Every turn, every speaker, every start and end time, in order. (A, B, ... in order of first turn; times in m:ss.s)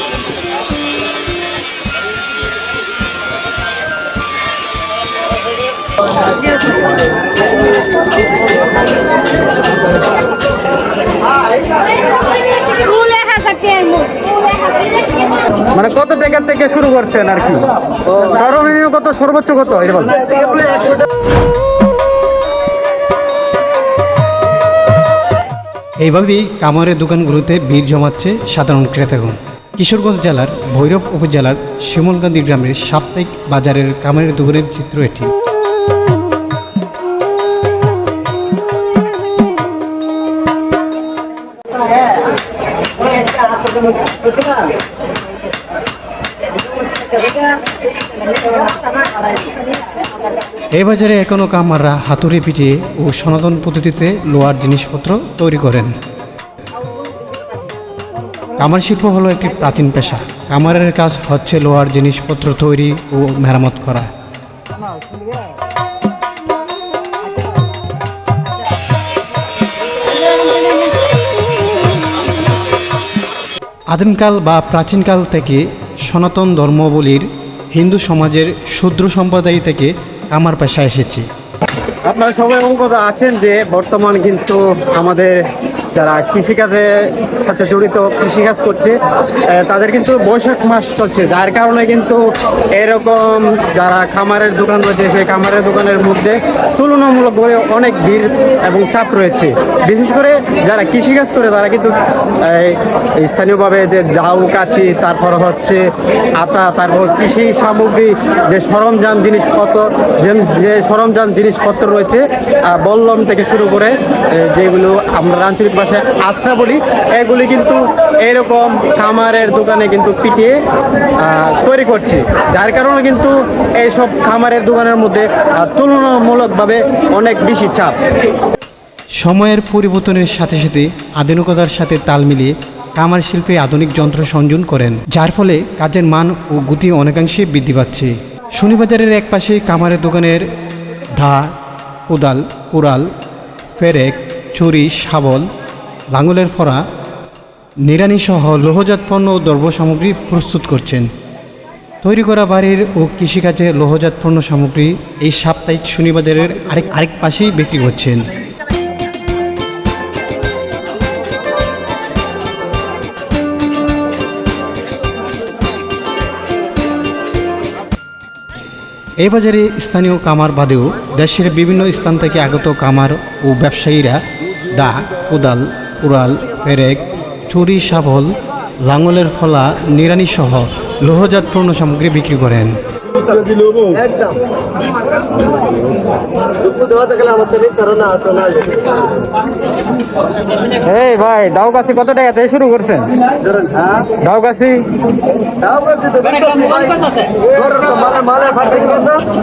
0:15.7-0:20.4 A
0:20.3-0:21.0 B
0:26.0-0:35.3 C
0:50.7-0:55.9 C
0:58.6-1:04.1 C
1:13.9-1:21.2 C
1:22.0-1:25.4 A
1:25.9-1:32.2 A
1:32.7-1:45.8 A
1:46.4-2:00.6 A
2:01.2-2:08.0 A
2:09.2-2:20.5 C
2:21.1-2:21.5 C
2:22.1-2:23.1 C
2:23.8-2:25.5 C
2:26.1-2:26.8 C
2:27.8-2:31.1 C
2:32.0-2:38.3 C
2:49.2-3:02.8 C
3:03.3-3:04.4 B
3:06.6-3:08.9 B
3:10.8-3:13.1 A
3:14.1-3:14.8 A
3:15.6-3:19.2 B